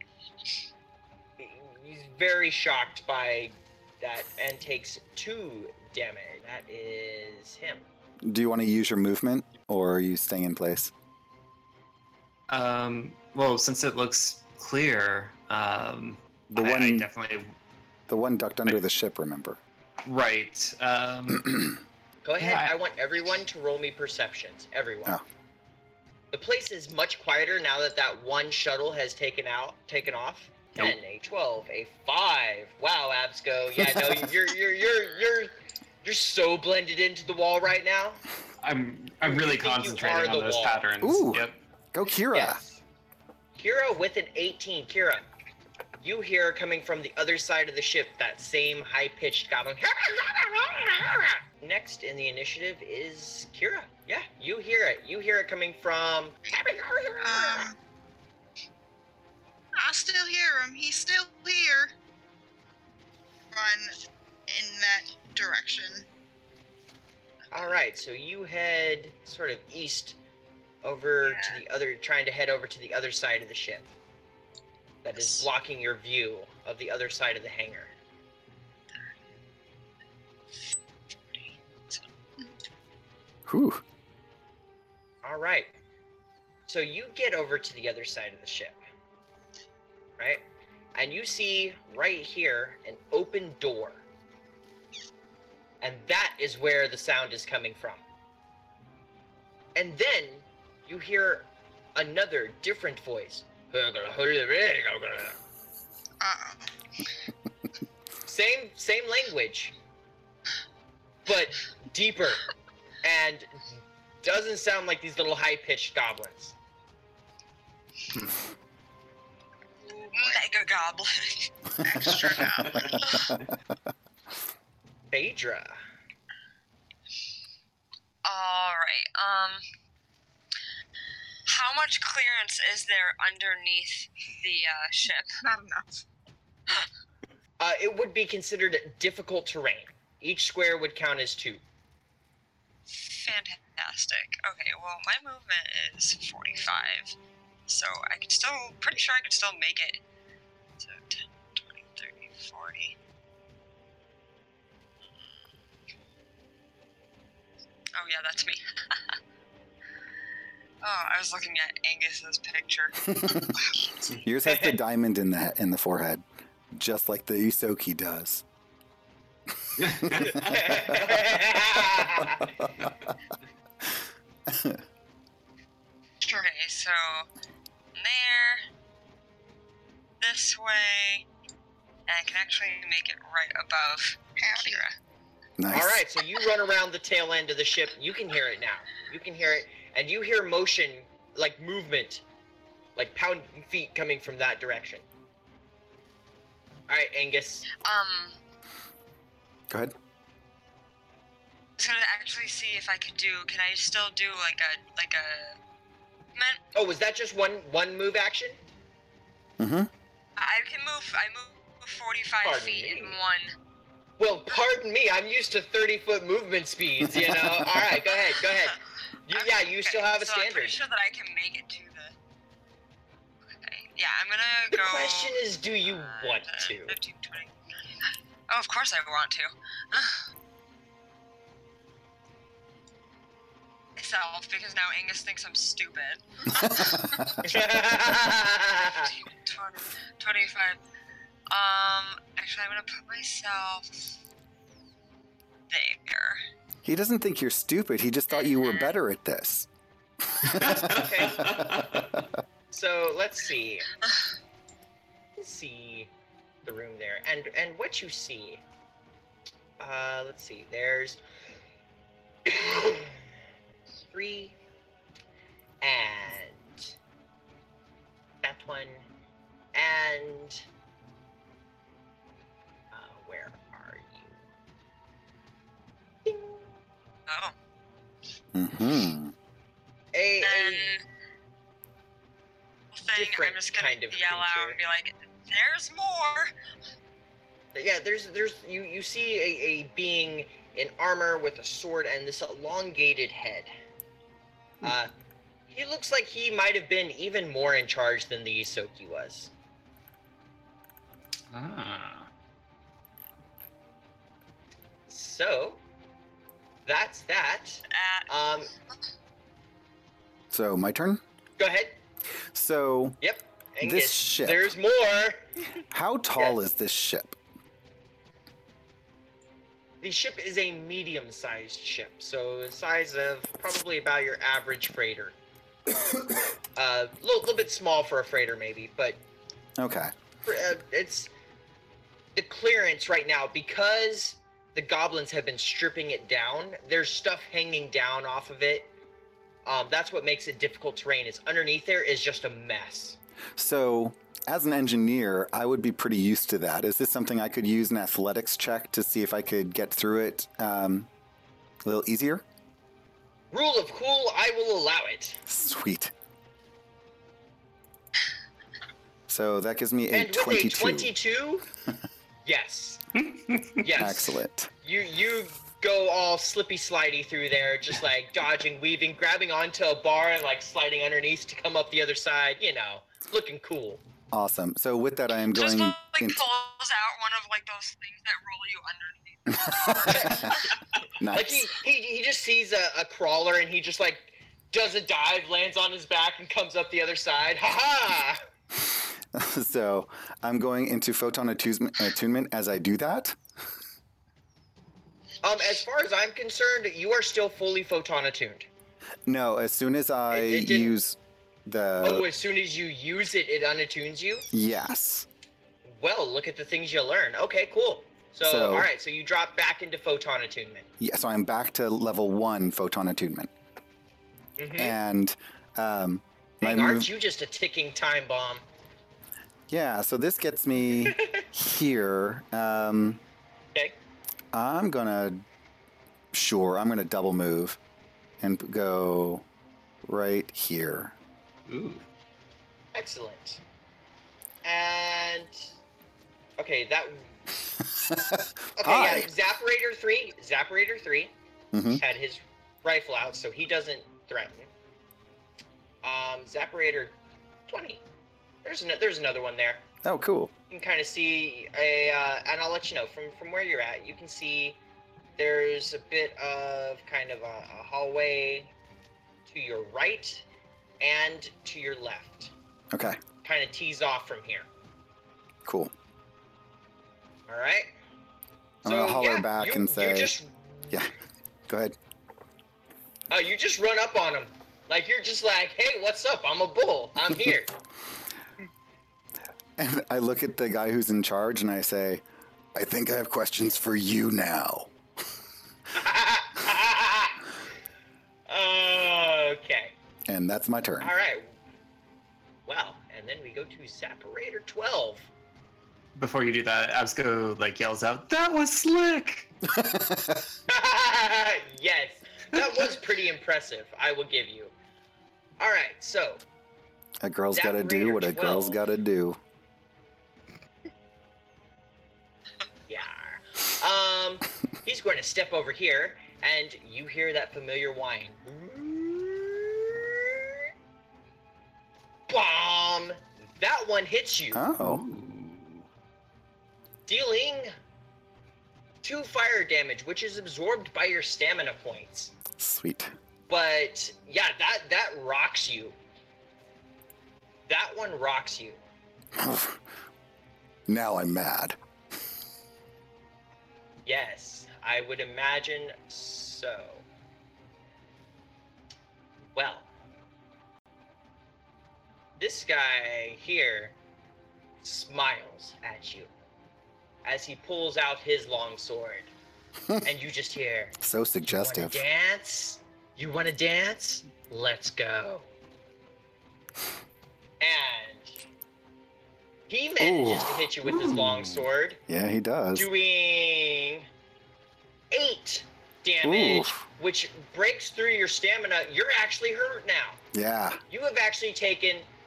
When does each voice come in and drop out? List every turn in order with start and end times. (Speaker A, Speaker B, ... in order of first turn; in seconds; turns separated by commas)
Speaker A: 1.4-7.9, Speaker B: 8.2-10.9, Speaker C: 12.5-17.5, Speaker B: 16.5-17.1, Speaker B: 18.1-19.6, Speaker C: 20.1-21.8, Speaker A: 22.2-25.2, Speaker C: 22.4-22.7, Speaker A: 26.3-38.2, Speaker B: 33.8-34.3, Speaker C: 38.6-41.6, Speaker A: 39.2-40.8, Speaker B: 41.0-42.6, Speaker A: 42.3-42.8, Speaker A: 43.6-45.3, Speaker A: 46.0-57.7, Speaker D: 57.2-57.8, Speaker D: 59.8-61.9, Speaker D: 63.5-64.0, Speaker D: 64.5-66.1, Speaker A: 67.5-70.2, Speaker A: 70.8-73.9, Speaker A: 75.0-77.9, Speaker E: 81.3-82.1, Speaker B: 83.5-83.8, Speaker A: 85.2-85.8, Speaker A: 86.7-88.8, Speaker A: 90.2-90.4, Speaker A: 91.0-94.0, Speaker A: 95.8-98.0, Speaker A: 99.8-105.4, Speaker D: 106.2-106.7, Speaker A: 108.3-109.8, Speaker A: 111.3-112.5, Speaker A: 113.0-113.7, Speaker A: 114.2-116.5, Speaker D: 119.8-120.5, Speaker E: 120.0-121.5, Speaker D: 121.8-123.2, Speaker E: 122.9-123.3, Speaker B: 122.9-123.5, Speaker A: 125.1-125.8, Speaker E: 128.2-129.6, Speaker E: 131.5-135.3, Speaker D: 135.4-136.0, Speaker A: 137.6-141.6, Speaker E: 142.9-147.2, Speaker E: 147.7-150.0, Speaker E: 150.8-153.0, Speaker E: 157.9-159.2, Speaker E: 160.8-164.2, Speaker B: 163.1-163.6, Speaker B: 164.1-168.4, Speaker A: 164.5-164.8, Speaker B: 169.7-171.2, Speaker C: 169.8-170.4, Speaker A: 170.2-172.5, Speaker B: 172.1-172.9, Speaker B: 174.5-174.8, Speaker E: 176.2-177.3, Speaker E: 178.0-178.6, Speaker E: 180.2-181.3, Speaker E: 182.1-185.0, Speaker D: 184.4-184.9, Speaker B: 185.6-186.0, Speaker A: 185.7-192.2, Speaker A: 193.0-195.0, Speaker A: 196.9-197.7, Speaker E: 197.8-198.4, Speaker E: 201.8-205.6, Speaker E: 206.3-206.6, Speaker A: 206.8-208.6, Speaker B: 209.6-209.9, Speaker E: 210.4-213.6, Speaker A: 212.4-213.2, Speaker A: 214.2-220.8, Speaker B: 217.2-217.7, Speaker E: 218.2-218.7, Speaker E: 219.3-222.2, Speaker E: 223.5-227.5, Speaker A: 224.7-227.0, Speaker E: 228.5-230.3, Speaker E: 234.0-237.0, Speaker B: 236.6-237.6, Speaker A: 237.4-239.1, Speaker E: 239.0-240.8, Speaker E: 241.5-244.2, Speaker E: 245.7-246.4, Speaker B: 246.8-249.7, Speaker E: 248.3-248.9, Speaker B: 250.3-252.3, Speaker C: 250.6-252.1, Speaker A: 250.8-251.6, Speaker A: 252.7-253.9, Speaker A: 255.4-256.1, Speaker A: 256.6-258.6, Speaker A: 259.8-261.2, Speaker A: 262.5-263.3, Speaker A: 264.1-264.6, Speaker A: 265.8-266.9, Speaker A: 268.4-269.1, Speaker A: 269.7-270.6, Speaker A: 272.9-274.4, Speaker A: 276.2-276.6, Speaker E: 277.3-277.6, Speaker B: 278.5-279.3, Speaker A: 280.1-281.0, Speaker E: 280.4-281.0, Speaker E: 282.9-286.5, Speaker A: 283.1-284.8, Speaker A: 287.8-293.7, Speaker A: 294.8-295.1, Speaker A: 295.7-299.5, Speaker C: 301.5-302.3, Speaker A: 305.1-305.8, Speaker A: 306.9-308.7, Speaker E: 307.9-308.3, Speaker B: 310.5-311.2, Speaker A: 311.6-312.0, Speaker B: 312.5-313.2, Speaker A: 313.2-315.5, Speaker B: 313.8-314.7, Speaker B: 315.9-317.4, Speaker A: 320.0-325.4, Speaker B: 326.0-326.5, Speaker A: 326.8-329.2, Speaker B: 329.8-330.1, Speaker A: 330.5-331.3, Speaker A: 332.4-338.9, Speaker A: 339.6-343.2, Speaker B: 343.6-351.1, Speaker B: 351.8-352.4, Speaker A: 353.5-355.4, Speaker B: 355.5-356.1, Speaker B: 359.3-361.1, Speaker A: 360.1-361.6, Speaker A: 362.4-363.0, Speaker C: 363.3-363.7, Speaker A: 363.8-374.0, Speaker B: 363.9-364.7, Speaker B: 374.3-376.4, Speaker E: 375.5-380.7, Speaker B: 379.5-380.6, Speaker A: 380.0-380.7, Speaker B: 381.2-381.7, Speaker A: 381.3-388.4, Speaker B: 388.8-393.4, Speaker A: 395.4-398.7, Speaker B: 399.3-402.3, Speaker A: 400.3-401.0, Speaker A: 402.0-404.5, Speaker B: 404.5-405.3, Speaker A: 405.9-410.9, Speaker B: 408.4-408.9, Speaker B: 411.0-413.5, Speaker A: 414.6-415.0, Speaker B: 414.8-417.1, Speaker A: 416.6-418.6, Speaker B: 419.7-423.2, Speaker A: 420.9-421.5, Speaker B: 424.5-425.4, Speaker B: 426.3-427.8, Speaker B: 428.4-429.4, Speaker B: 430.1-431.1, Speaker C: 431.7-432.1, Speaker A: 432.9-433.6, Speaker A: 434.6-435.6, Speaker A: 436.6-437.3, Speaker B: 437.8-439.3, Speaker A: 438.8-441.3, Speaker B: 441.7-442.0, Speaker A: 442.0-444.7, Speaker A: 446.0-447.2, Speaker A: 447.7-448.0, Speaker A: 448.6-449.8, Speaker B: 450.1-450.5, Speaker A: 450.7-454.8, Speaker A: 455.4-458.7, Speaker A: 459.5-460.4, Speaker A: 461.0-462.5, Speaker B: 462.9-463.2, Speaker A: 463.4-464.7, Speaker B: 465.7-465.9, Speaker A: 467.5-467.9, Speaker B: 468.8-470.3, Speaker A: 468.9-471.1, Speaker B: 471.7-472.0, Speaker A: 473.3-477.7, Speaker B: 479.8-482.2, Speaker B: 482.8-484.9, Speaker A: 485.9-487.5, Speaker A: 488.5-489.9, Speaker B: 490.3-491.1, Speaker A: 491.0-491.5, Speaker A: 492.7-495.3, Speaker C: 496.1-499.5, Speaker B: 499.7-500.5, Speaker A: 500.7-504.7, Speaker A: 505.6-506.4, Speaker B: 507.2-509.4, Speaker A: 507.5-508.8, Speaker A: 512.9-520.6, Speaker A: 522.3-524.6, Speaker B: 524.5-525.0, Speaker C: 524.8-525.9, Speaker A: 527.1-527.7, Speaker A: 529.0-532.3, Speaker B: 532.6-533.1, Speaker A: 533.5-536.0, Speaker A: 537.7-538.8, Speaker B: 539.4-539.8, Speaker B: 540.9-541.8, Speaker A: 544.1-547.0, Speaker A: 549.5-549.9, Speaker A: 552.4-554.0, Speaker A: 554.8-556.3, Speaker A: 557.2-559.3, Speaker A: 560.0-561.0, Speaker B: 561.0-562.0, Speaker A: 561.5-565.5, Speaker A: 567.6-568.4, Speaker A: 569.7-572.0, Speaker B: 570.0-570.7, Speaker B: 572.1-572.9, Speaker A: 572.7-574.1, Speaker A: 575.1-580.2, Speaker B: 576.2-576.9, Speaker B: 580.3-580.8, Speaker A: 580.9-582.1